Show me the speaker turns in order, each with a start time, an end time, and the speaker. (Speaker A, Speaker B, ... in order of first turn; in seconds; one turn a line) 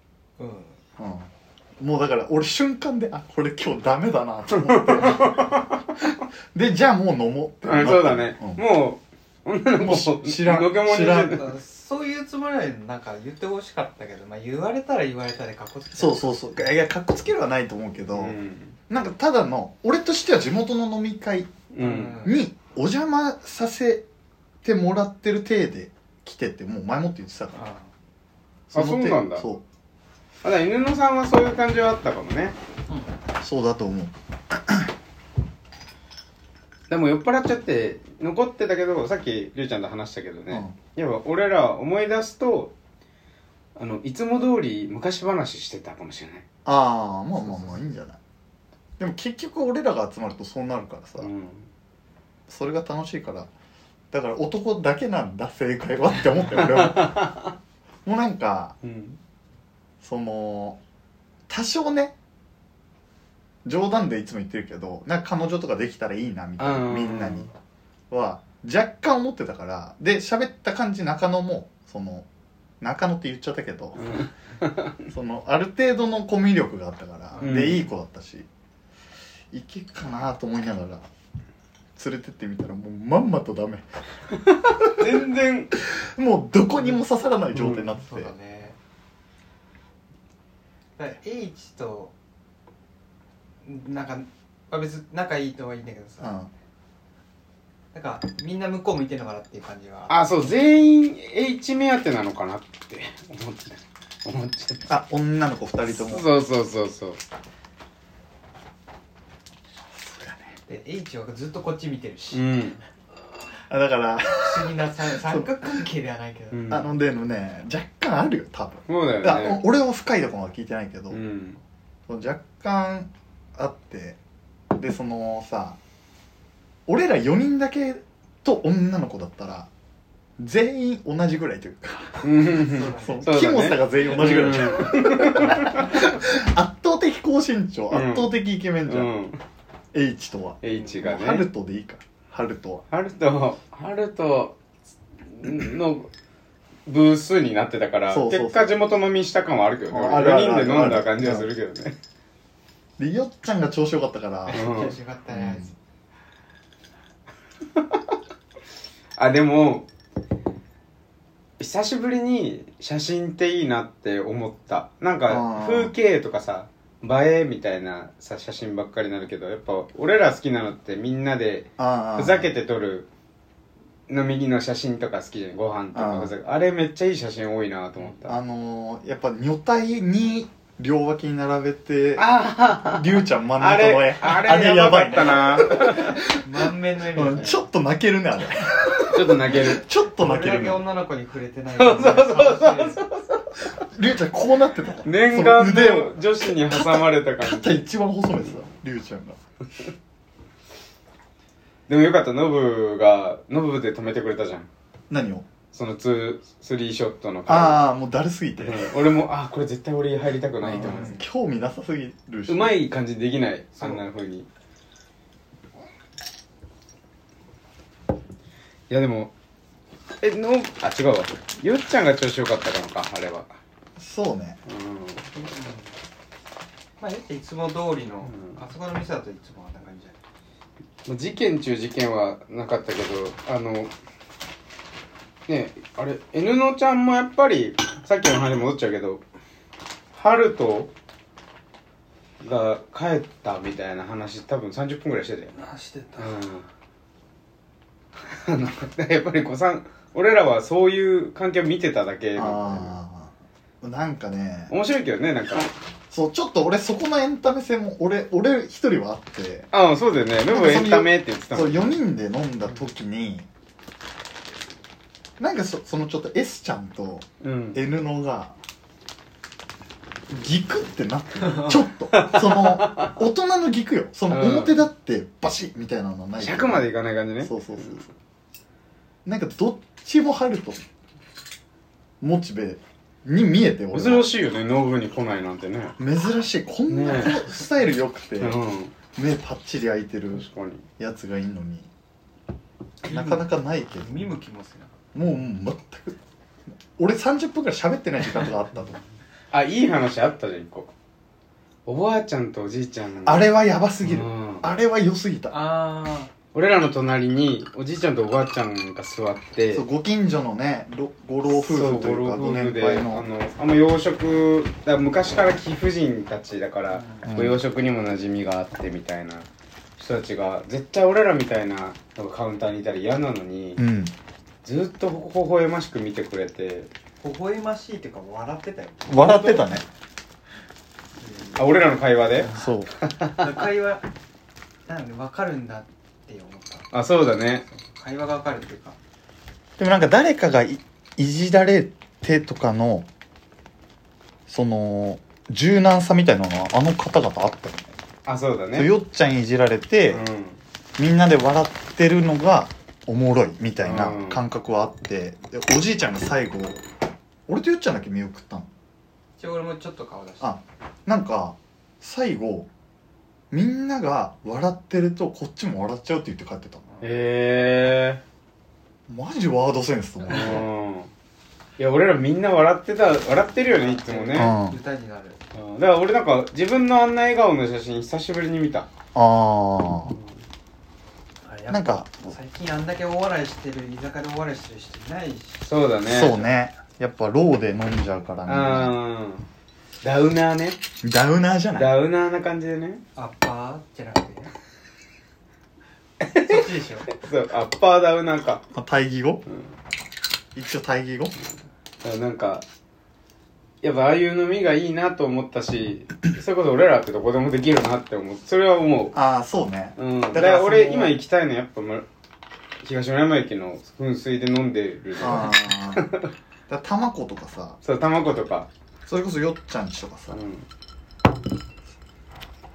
Speaker A: 0.4-0.8
Speaker B: 1.0-8.6
Speaker C: 4.6-5.8
Speaker C: 7.6-11.5
Speaker B: 9.8-11.4
Speaker A: 11.2-16.3
Speaker B: 15.9-18.4
Speaker C: 18.1-18.8
Speaker B: 18.9-21.6
Speaker C: 21.7-22.2
Speaker A: 21.8-22.4
Speaker B: 22.2-24.0
Speaker B: 24.6-27.6
Speaker A: 27.5-27.9
Speaker B: 28.7-29.6
Speaker C: 28.7-29.4
Speaker C: 30.4-32.6
Speaker A: 32.9-33.1
Speaker B: 33.4-34.9
Speaker C: 36.9-42.7
Speaker B: 40.5-40.8
Speaker C: 43.8-46.4
Speaker B: 46.6-48.2
Speaker A: 47.4-47.8
Speaker B: 49.0-51.3
Speaker C: 51.2-51.7
Speaker B: 52.5-53.5
Speaker B: 54.1-57.3
Speaker C: 56.5-57.5
Speaker B: 58.0-58.7
Speaker C: 58.8-59.2
Speaker B: 60.0-60.8
Speaker B: 61.5-62.1
Speaker B: 63.6-67.5
Speaker C: 66.6-67.5
Speaker B: 68.1-72.3
Speaker B: 72.8-74.0
Speaker C: 74.0-75.0
Speaker B: 75.1-78.5
Speaker A: 77.3-77.8
Speaker C: 77.4-77.8
Speaker B: 79.5-81.0
Speaker B: 82.0-83.8
Speaker B: 84.7-85.2
Speaker C: 84.8-85.7
Speaker B: 85.7-88.3
Speaker C: 87.5-87.9
Speaker A: 87.9-88.8
Speaker A: 91.0-92.1
Speaker A: 93.6-96.3
Speaker B: 96.2-96.5
Speaker A: 97.9-100.5
Speaker C: 100.1-104.9
Speaker B: 104.9-106.3
Speaker C: 105.9-107.2
Speaker B: 109.9-110.6
Speaker A: 110.7-112.4
Speaker C: 112.3-112.8
Speaker B: 113.7-115.9
Speaker A: 114.4-116.8
Speaker C: 116.5-116.9
Speaker B: 116.7-121.2
Speaker C: 118.9-119.6
Speaker C: 121.1-121.6
Speaker B: 122.1-124.2
Speaker B: 124.7-125.8
Speaker B: 126.9-129.7
Speaker B: 130.4-139.1
Speaker C: 132.2-136.0
Speaker A: 132.6-133.2
Speaker C: 137.9-138.3
Speaker C: 138.8-139.4
Speaker B: 139.9-142.8
Speaker C: 140.6-141.5
Speaker C: 142.9-144.6
Speaker C: 145.2-146.1
Speaker C: 146.9-152.0
Speaker B: 148.1-148.7
Speaker B: 149.9-151.5
Speaker B: 153.0-154.6
Speaker A: 154.5-155.7
Speaker C: 154.5-154.9
Speaker B: 155.3-155.7
Speaker C: 157.8-158.1
Speaker C: 159.2-159.9
Speaker C: 161.6-173.1
Speaker B: 165.3-165.9
Speaker B: 171.8-172.5
Speaker C: 174.1-178.3
Speaker B: 175.9-176.3
Speaker B: 178.2-186.4
Speaker C: 182.2-186.2
Speaker A: 185.2-187.6
Speaker B: 187.1-190.8
Speaker C: 188.9-189.8
Speaker A: 190.1-193.0
Speaker C: 191.8-193.6
Speaker B: 193.8-199.4
Speaker C: 195.0-197.8
Speaker C: 201.9-204.7
Speaker B: 205.1-205.4
Speaker C: 205.7-207.8
Speaker B: 207.5-208.9
Speaker C: 208.6-211.2
Speaker B: 210.6-212.8
Speaker A: 210.7-211.2
Speaker C: 212.5-214.5
Speaker A: 213.8-214.0
Speaker C: 218.9-219.3
Speaker C: 220.2-223.5
Speaker B: 224.0-224.6
Speaker C: 224.7-225.3
Speaker A: 225.3-225.9
Speaker A: 227.0-230.2
Speaker C: 228.2-228.6
Speaker C: 231.0-233.9
Speaker C: 235.5-239.2
Speaker C: 240.1-240.9
Speaker C: 242.4-245.6
Speaker A: 245.5-246.4
Speaker C: 246.2-246.6
Speaker C: 248.2-252.9
Speaker B: 252.3-254.7
Speaker C: 254.7-255.7
Speaker B: 256.1-259.7
Speaker C: 259.7-261.9
Speaker B: 260.5-263.5
Speaker B: 265.4-268.6
Speaker C: 267.4-267.8
Speaker B: 270.3-276.8
Speaker A: 271.4-271.8
Speaker C: 272.1-273.2
Speaker C: 274.3-274.8
Speaker C: 276.4-278.0
Speaker B: 277.4-278.1
Speaker B: 279.2-280.9
Speaker B: 282.2-284.3
Speaker C: 283.9-285.9
Speaker B: 286.0-288.6
Speaker C: 286.9-287.5
Speaker C: 288.4-288.9
Speaker B: 289.1-290.4
Speaker C: 290.3-290.9
Speaker B: 291.0-291.9
Speaker A: 293.0-295.0
Speaker B: 293.0-294.3
Speaker B: 295.1-296.2
Speaker B: 296.9-299.0
Speaker C: 299.5-300.9
Speaker C: 301.9-303.5
Speaker B: 303.2-305.6
Speaker C: 304.0-304.6
Speaker A: 305.5-306.3
Speaker C: 306.5-309.8
Speaker B: 309.7-313.3
Speaker C: 311.5-323.8
Speaker A: 316.9-317.3
Speaker B: 317.2-317.6
Speaker B: 323.8-324.1
Speaker C: 324.6-326.9
Speaker A: 327.2-329.3
Speaker B: 329.1-329.8
Speaker C: 329.2-329.6
Speaker A: 331.2-332.7
Speaker C: 331.6-333.5
Speaker B: 332.5-332.9
Speaker A: 333.2-334.1
Speaker A: 334.9-336.9
Speaker C: 336.9-337.6
Speaker A: 337.6-339.0
Speaker B: 339.8-343.1
Speaker B: 344.5-347.9
Speaker C: 348.2-348.9
Speaker B: 348.7-350.2
Speaker C: 350.1-350.6
Speaker B: 351.0-356.8
Speaker C: 353.8-354.4
Speaker B: 357.5-358.7
Speaker A: 359.4-360.6
Speaker B: 360.4-362.7
Speaker B: 363.5-366.8
Speaker A: 366.9-367.2
Speaker C: 367.0-368.2
Speaker B: 369.1-370.6
Speaker C: 370.3-371.1
Speaker C: 371.8-374.5
Speaker A: 373.7-375.4
Speaker B: 374.3-374.8
Speaker C: 375.5-378.9
Speaker B: 379.1-380.1
Speaker A: 381.4-385.6
Speaker B: 381.7-382.3
Speaker C: 385.6-386.5
Speaker B: 386.1-388.9
Speaker C: 388.4-389.4
Speaker C: 390.0-390.8
Speaker B: 391.0-391.9
Speaker C: 391.7-393.0
Speaker A: 393.1-394.5
Speaker C: 396.2-398.6
Speaker A: 396.4-397.1
Speaker B: 398.7-399.4
Speaker B: 400.5-401.3
Speaker C: 402.0-402.6
Speaker C: 403.8-409.1
Speaker B: 409.1-411.1
Speaker C: 410.0-412.1
Speaker C: 412.8-416.3
Speaker B: 415.2-416.1
Speaker B: 416.7-417.8
Speaker C: 417.8-418.7
Speaker B: 419.0-420.4
Speaker C: 420.3-420.6